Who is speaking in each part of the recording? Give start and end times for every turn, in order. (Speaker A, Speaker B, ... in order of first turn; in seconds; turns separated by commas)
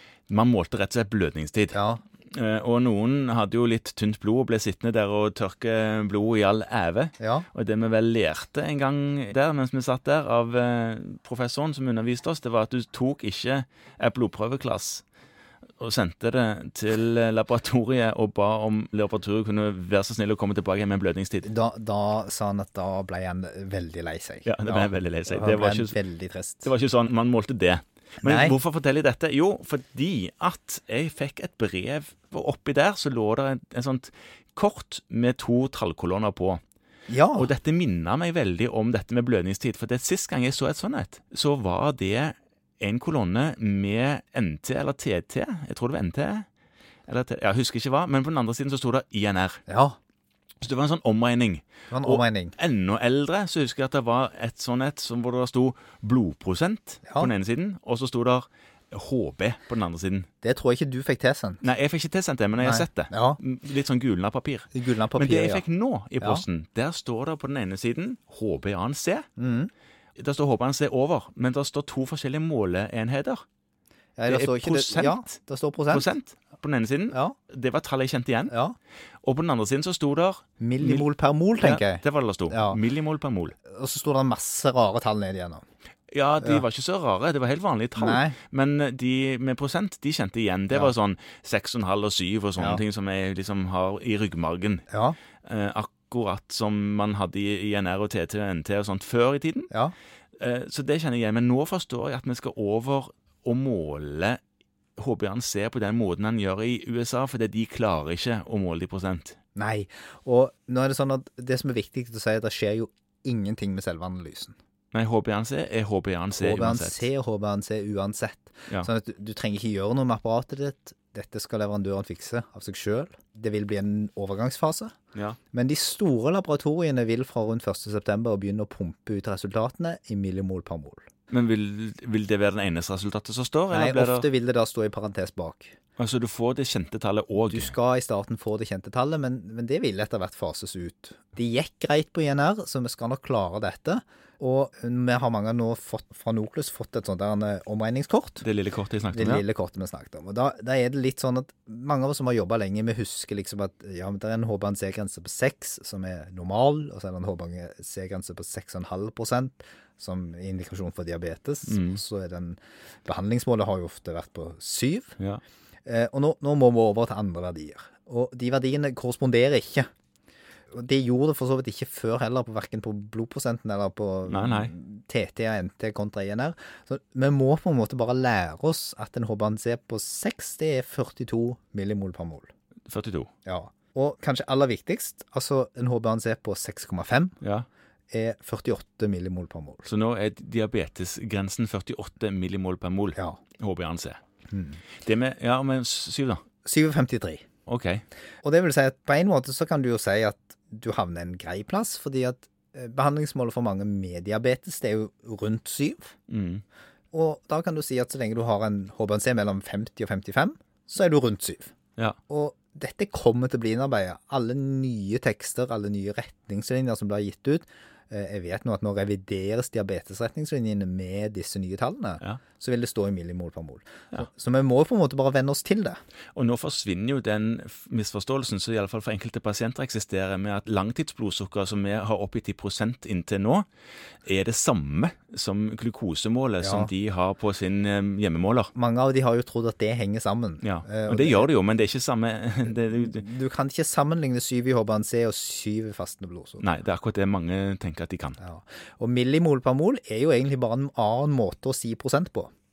Speaker A: 0.3-15.0, Speaker B: 1.7-2.0, Speaker B: 7.2-7.5, Speaker A: 15.8-21.5, Speaker B: 21.4-26.7, Speaker A: 24.4-25.9, Speaker A: 26.6-36.6, Speaker B: 28.2-28.6, Speaker B: 37.1-37.5, Speaker A: 37.3-46.5, Speaker A: 47.1-49.6, Speaker B: 49.7-50.0, Speaker A: 50.6-60.3, Speaker B: 51.9-52.5, Speaker B: 57.1-57.3, Speaker B: 60.4-61.6, Speaker A: 61.6-69.3, Speaker B: 62.6-63.4, Speaker B: 64.7-65.6, Speaker B: 66.2-66.5, Speaker B: 69.4-69.7, Speaker A: 70.2-73.5, Speaker B: 74.2-76.1, Speaker A: 74.3-75.4, Speaker A: 75.9-78.5, Speaker B: 78.5-78.8, Speaker A: 79.2-81.0, Speaker B: 80.6-82.8, Speaker A: 81.6-83.5, Speaker B: 83.7-85.6, Speaker A: 86.1-94.9, Speaker B: 88.0-88.4, Speaker B: 94.9-95.2, Speaker A: 95.4-99.7, Speaker A: 100.4-104.4, Speaker A: 105.0-109.4, Speaker B: 109.6-114.5, Speaker A: 114.9-117.1, Speaker B: 116.3-125.0, Speaker B: 125.5-131.1, Speaker A: 131.3-134.3, Speaker B: 133.7-135.8, Speaker A: 136.0-137.7, Speaker B: 137.5-148.4, Speaker A: 148.4-149.4, Speaker B: 149.1-165.2, Speaker A: 161.7-162.0, Speaker B: 165.9-169.9, Speaker B: 170.7-182.5, Speaker A: 174.3-174.7, Speaker A: 182.9-183.3, Speaker B: 183.5-187.4, Speaker A: 187.4-187.7, Speaker B: 188.1-189.8, Speaker A: 189.8-194.2, Speaker B: 194.5-194.8, Speaker A: 195.0-196.4, Speaker B: 196.7-197.4, Speaker A: 197.7-198.0, Speaker B: 198.4-206.1, Speaker A: 206.3-206.6, Speaker B: 207.1-211.7, Speaker B: 212.3-226.0, Speaker A: 226.3-233.7, Speaker A: 234.2-238.7, Speaker B: 236.6-236.9, Speaker B: 238.8-241.5, Speaker A: 240.6-243.2, Speaker B: 242.7-246.7, Speaker A: 246.6-248.4, Speaker B: 248.4-252.5